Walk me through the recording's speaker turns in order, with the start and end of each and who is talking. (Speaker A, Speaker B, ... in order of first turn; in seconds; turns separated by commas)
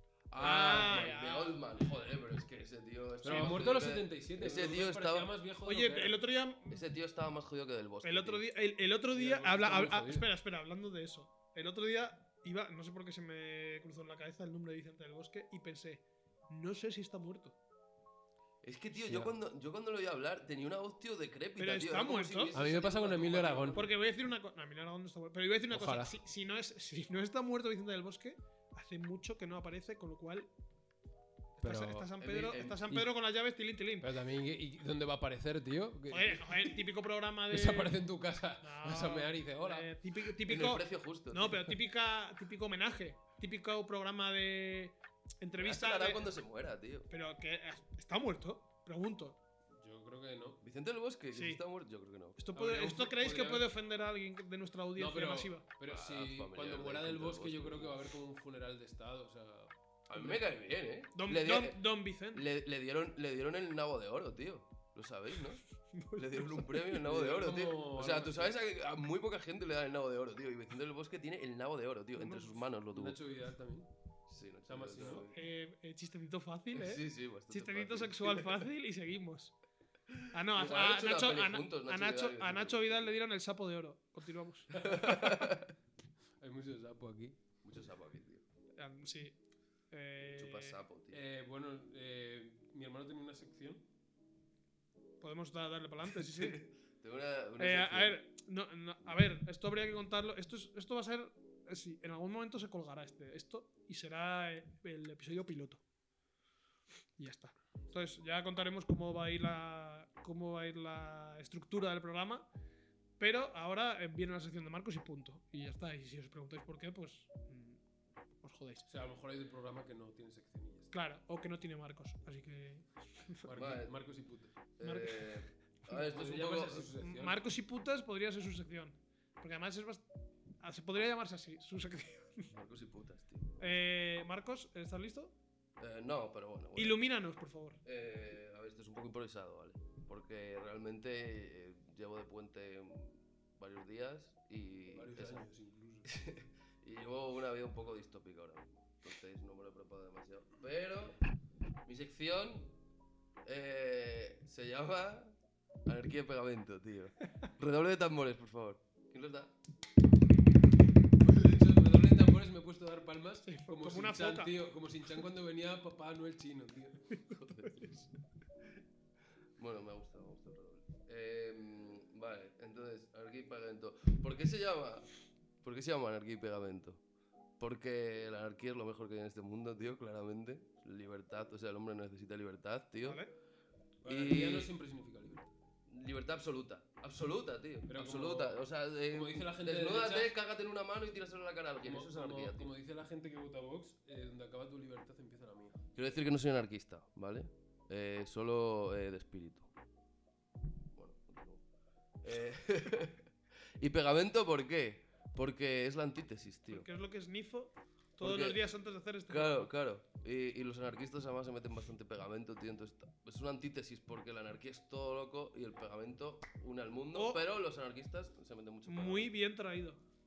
Speaker A: 0.3-5.3, Speaker B: 0.4-1.6, Speaker C: 0.5-1.1, Speaker C: 3.2-6.2, Speaker B: 3.2-3.6, Speaker B: 5.6-6.8, Speaker A: 6.7-8.4, Speaker B: 8.0-17.6, Speaker C: 9.1-10.2, Speaker A: 18.6-23.9, Speaker C: 18.9-19.3, Speaker B: 21.6-22.5, Speaker C: 22.5-23.9, Speaker B: 23.7-30.5, Speaker C: 25.7-26.1, Speaker B: 31.6-34.1, Speaker C: 31.6-32.1, Speaker A: 32.2-32.8, Speaker C: 34.0-36.8, Speaker B: 36.1-38.0, Speaker C: 37.5-39.9, Speaker B: 38.6-46.2, Speaker A: 40.4-41.7, Speaker A: 45.6-47.1, Speaker B: 47.1-49.4, Speaker C: 49.8-50.6, Speaker A: 50.6-52.4, Speaker B: 51.3-51.6, Speaker B: 52.4-55.6, Speaker C: 52.5-53.7, Speaker C: 55.0-60.4, Speaker A: 55.8-58.0, Speaker A: 60.1-65.6, Speaker B: 61.1-62.5, Speaker B: 65.9-66.9, Speaker A: 66.1-73.2, Speaker C: 67.0-68.6, Speaker B: 72.2-72.6, Speaker C: 72.9-73.9, Speaker A: 74.3-75.4, Speaker C: 74.7-75.2, Speaker B: 75.0-79.5, Speaker A: 76.7-78.6, Speaker A: 80.1-83.1, Speaker B: 80.3-85.4, Speaker A: 84.7-85.7, Speaker C: 86.4-87.4, Speaker A: 87.6-88.4, Speaker B: 88.8-89.4, Speaker B: 89.9-90.8, Speaker A: 90.3-91.2, Speaker C: 91.1-93.8, Speaker B: 95.2-96.6, Speaker A: 96.2-98.2, Speaker B: 97.6-105.8, Speaker B: 107.2-112.5, Speaker B: 113.2-117.8, Speaker B: 118.4-118.8, Speaker C: 118.8-120.9, Speaker B: 120.9-123.5, Speaker C: 123.4-124.5, Speaker A: 123.5-123.9, Speaker A: 124.8-126.9, Speaker B: 124.8-125.4, Speaker C: 125.9-127.4, Speaker B: 127.0-130.0, Speaker B: 130.6-132.5, Speaker A: 132.5-133.7, Speaker B: 133.6-135.3, Speaker A: 135.8-137.0, Speaker B: 136.8-137.8, Speaker A: 137.8-145.5, Speaker C: 144.9-146.1, Speaker A: 146.1-151.2, Speaker A: 151.8-152.7, Speaker A: 153.4-159.5, Speaker C: 161.2-167.0, Speaker B: 163.4-164.5, Speaker B: 167.1-168.1, Speaker A: 167.3-167.9, Speaker A: 169.6-175.1, Speaker A: 175.6-177.0, Speaker A: 177.6-183.2, Speaker B: 183.0-183.3, Speaker C: 184.0-185.5, Speaker A: 184.0-184.7, Speaker A: 185.9-192.7, Speaker C: 187.9-190.3, Speaker C: 191.8-195.8, Speaker A: 195.9-199.7, Speaker A: 200.9-201.6, Speaker A: 202.2-203.2, Speaker A: 203.8-206.9, Speaker B: 206.7-209.7, Speaker A: 208.2-208.6, Speaker A: 209.3-219.3, Speaker B: 217.1-217.4, Speaker B: 218.8-220.0